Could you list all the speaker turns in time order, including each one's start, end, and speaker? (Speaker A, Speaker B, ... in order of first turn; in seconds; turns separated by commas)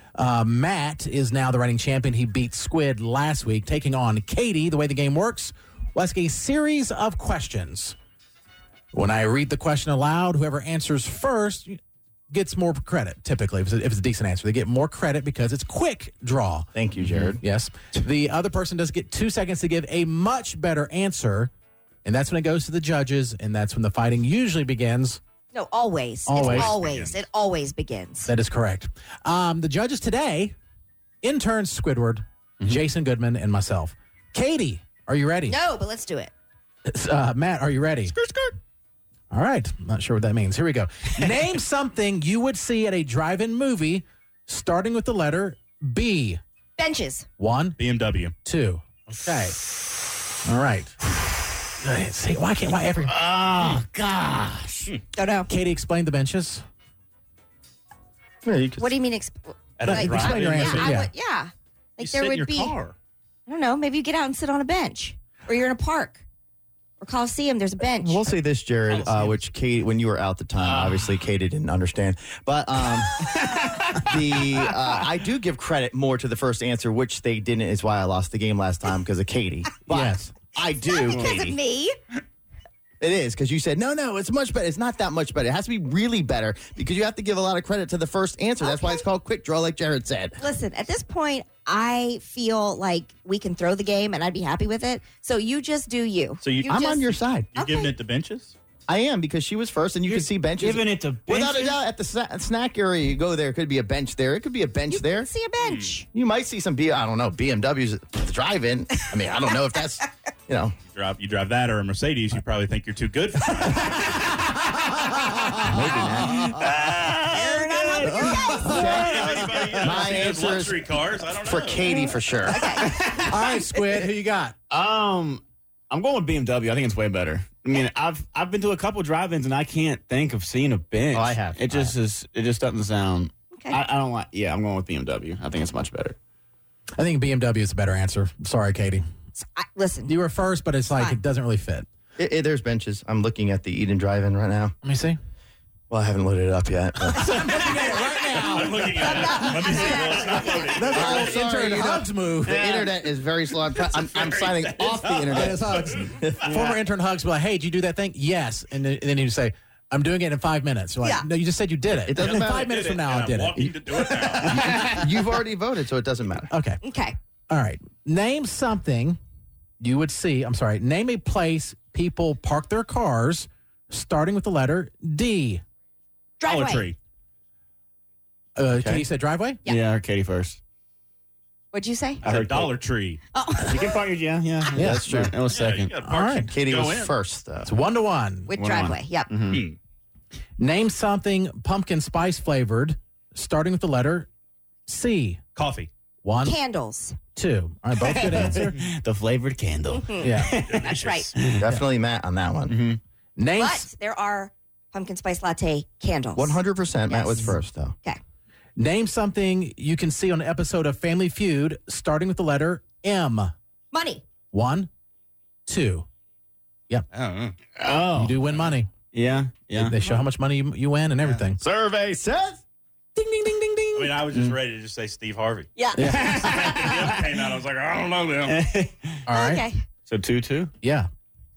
Speaker A: 0.2-8.0, Speaker A: 8.9-11.8, Speaker A: 12.3-21.5, Speaker B: 16.8-17.4, Speaker A: 22.1-25.2, Speaker C: 25.5-28.3, Speaker A: 26.3-26.7, Speaker D: 26.4-27.1, Speaker A: 28.2-30.6, Speaker A: 31.2-35.6, Speaker C: 35.5-36.3, Speaker A: 36.9-38.1, Speaker D: 38.1-38.5, Speaker A: 39.3-46.4, Speaker C: 46.8-47.3, Speaker A: 47.4-47.8, Speaker D: 47.8-48.3, Speaker A: 48.5-49.6, Speaker A: 50.5-51.2, Speaker A: 51.7-53.1, Speaker E: 53.1-54.9, Speaker C: 55.1-55.5, Speaker A: 55.5-56.6, Speaker B: 58.4-59.0, Speaker C: 58.8-62.8, Speaker D: 59.8-61.0, Speaker A: 59.9-61.1, Speaker D: 62.0-62.9, Speaker C: 63.5-66.2, Speaker C: 67.0-68.2, Speaker B: 68.0-73.2, Speaker D: 68.9-69.4, Speaker E: 70.6-71.3, Speaker E: 73.2-74.9, Speaker B: 74.0-81.6, Speaker A: 79.9-80.3, Speaker C: 80.6-82.0, Speaker E: 81.0-81.5, Speaker B: 83.0-90.4, Speaker C: 88.6-89.0, Speaker C: 90.4-97.9, Speaker D: 96.4-98.6, Speaker B: 96.7-97.5, Speaker B: 98.9-105.3, Speaker E: 100.1-101.8, Speaker C: 104.9-106.1, Speaker D: 105.6-105.9, Speaker B: 106.1-110.8, Speaker D: 110.9-114.3, Speaker A: 114.9-115.7, Speaker B: 115.6-116.7, Speaker E: 116.6-120.0, Speaker C: 116.7-119.0, Speaker B: 118.2-120.8, Speaker A: 118.3-119.0, Speaker D: 118.3-122.0, Speaker B: 121.4-122.7, Speaker C: 122.4-123.0, Speaker E: 122.7-123.6, Speaker A: 123.2-124.5, Speaker E: 124.7-136.2, Speaker B: 131.1-131.9, Speaker A: 137.0-139.0, Speaker C: 139.3-140.2, Speaker A: 140.1-141.9, Speaker B: 142.2-144.7, Speaker A: 144.8-145.2, Speaker B: 145.9-147.8, Speaker A: 147.0-152.7, Speaker D: 148.3-151.4, Speaker C: 148.9-150.9, Speaker B: 150.8-156.5, Speaker E: 152.5-152.9, Speaker D: 153.8-156.0, Speaker A: 155.3-163.7, Speaker E: 156.4-156.8, Speaker B: 162.1-162.7, Speaker D: 162.2-164.7, Speaker B: 164.0-166.5, Speaker E: 164.4-165.0, Speaker A: 166.5-166.8, Speaker C: 166.8-167.2, Speaker A: 167.5-169.2, Speaker A: 169.8-175.6, Speaker C: 176.4-176.9, Speaker D: 176.4-177.0, Speaker A: 178.6-179.6, Speaker B: 178.7-179.1, Speaker E: 179.7-180.6, Speaker C: 181.7-182.2, Speaker D: 182.2-183.2, Speaker E: 182.2-182.7, Speaker C: 183.3-184.0, Speaker E: 183.7-186.0, Speaker A: 184.8-185.1, Speaker B: 184.8-185.4, Speaker D: 185.4-187.1, Speaker A: 186.0-186.5, Speaker B: 186.5-187.7, Speaker A: 187.7-188.5, Speaker C: 188.5-189.3, Speaker E: 188.6-189.6, Speaker A: 190.6-194.3, Speaker A: 194.9-195.4, Speaker D: 195.6-195.9, Speaker A: 196.2-196.6, Speaker C: 196.4-197.2, Speaker A: 197.3-198.8, Speaker E: 198.0-201.6, Speaker C: 199.9-201.3, Speaker A: 200.2-200.5, Speaker D: 200.7-201.3, Speaker B: 201.5-202.8, Speaker E: 202.7-203.0, Speaker A: 203.4-203.9, Speaker C: 203.5-208.2, Speaker B: 206.4-208.0, Speaker A: 208.8-213.5, Speaker C: 213.9-214.2, Speaker A: 214.5-214.9, Speaker A: 215.7-216.1, Speaker D: 217.1-217.6, Speaker E: 217.8-218.4, Speaker A: 218.2-218.9, Speaker E: 219.1-220.0, Speaker A: 219.8-221.6, Speaker B: 221.6-222.6, Speaker A: 223.2-224.2, Speaker D: 223.9-225.7, Speaker C: 225.8-226.6, Speaker A: 226.0-226.5, Speaker E: 226.0-227.4, Speaker D: 226.4-228.6, Speaker E: 228.5-229.2, Speaker A: 229.3-229.7, Speaker C: 229.3-229.8, Speaker E: 230.1-230.7, Speaker A: 230.8-231.1